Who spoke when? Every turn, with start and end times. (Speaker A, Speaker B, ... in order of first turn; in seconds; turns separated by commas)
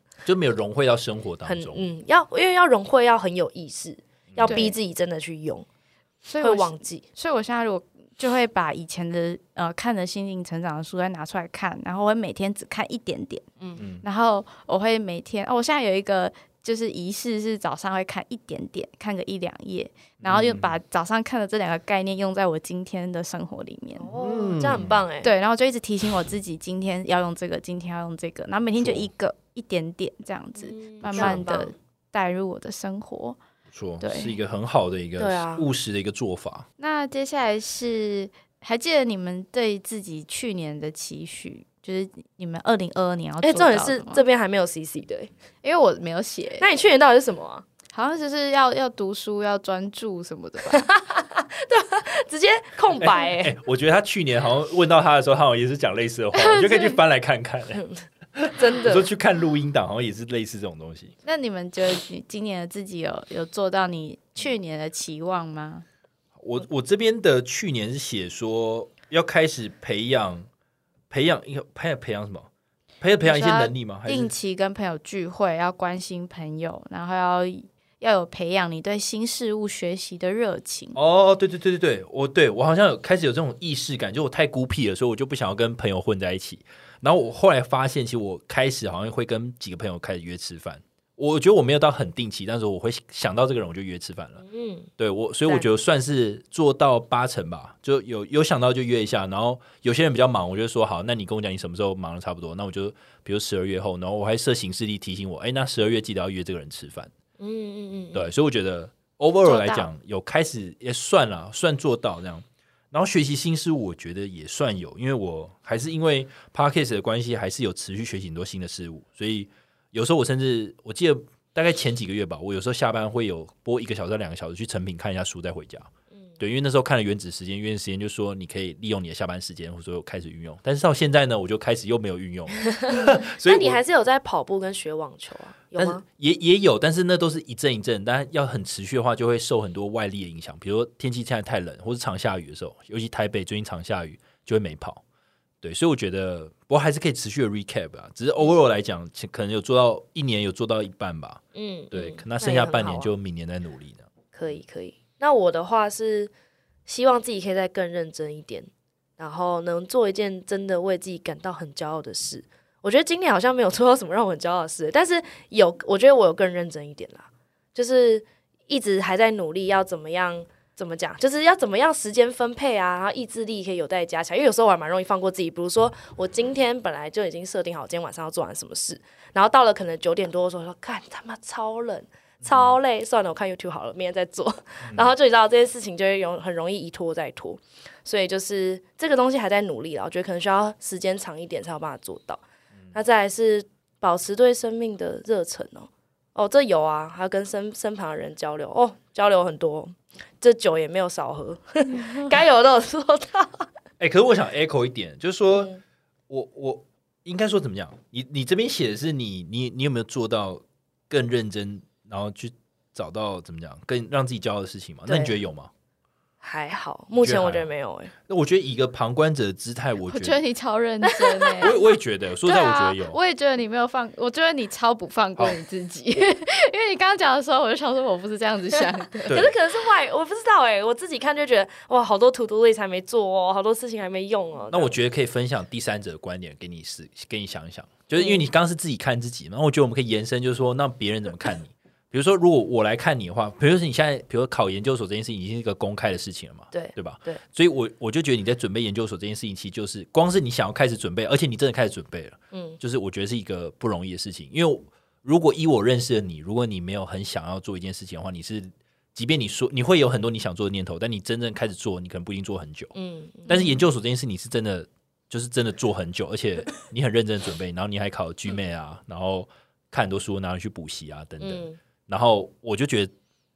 Speaker A: 0.2-1.9, Speaker B: 1.5-5.7, Speaker A: 4.3-4.6, Speaker C: 4.5-4.8, Speaker C: 6.3-24.1, Speaker B: 6.4-7.1, Speaker A: 13.8-14.0, Speaker A: 20.2-20.7, Speaker B: 24.0-25.3, Speaker A: 24.1-25.0, Speaker C: 25.2-33.4, Speaker A: 28.8-29.1, Speaker B: 30.6-31.7, Speaker A: 33.7-36.7, Speaker C: 34.0-34.3, Speaker B: 35.2-35.7, Speaker C: 36.8-44.2, Speaker B: 43.4-45.3, Speaker C: 45.6-46.7, Speaker B: 46.6-47.7, Speaker C: 47.9-50.9, Speaker B: 50.7-53.5, Speaker A: 52.9-57.8, Speaker C: 56.4-57.0, Speaker B: 57.8-59.1, Speaker A: 58.4-61.1, Speaker C: 61.2-65.8, Speaker A: 66.4-70.5, Speaker A: 71.1-72.5, Speaker A: 73.0-74.3, Speaker C: 73.2-81.0, Speaker A: 81.0-94.4, Speaker B: 94.4-94.9, Speaker A: 95.0-107.1, Speaker B: 107.4-108.3, Speaker A: 108.1-133.8, Speaker C: 109.5-109.9, Speaker B: 132.8-136.0, Speaker A: 135.8-145.0, Speaker A: 145.6-151.4, Speaker B: 151.6-153.1, Speaker A: 151.9-154.1, Speaker B: 154.3-156.3, Speaker B: 156.9-192.4, Speaker A: 182.4-182.8, Speaker B: 192.9-203.7, Speaker A: 204.0-205.7, Speaker B: 205.5-205.8, Speaker A: 206.3-215.7, Speaker B: 215.1-215.3, Speaker B: 216.4-218.1, Speaker A: 217.2-217.7, Speaker A: 218.3-220.4, Speaker C: 220.1-221.8, Speaker B: 221.0-221.8, Speaker A: 221.6-223.2, Speaker C: 222.4-229.5, Speaker A: 229.3-229.5, Speaker B: 229.3-235.0, Speaker A: 234.7-262.9, Speaker B: 238.2-238.4, Speaker B: 246.7-247.4, Speaker B: 252.5-252.8, Speaker B: 263.0-263.6, Speaker C: 263.5-263.8, Speaker A: 263.5-273.1, Speaker B: 271.4-271.8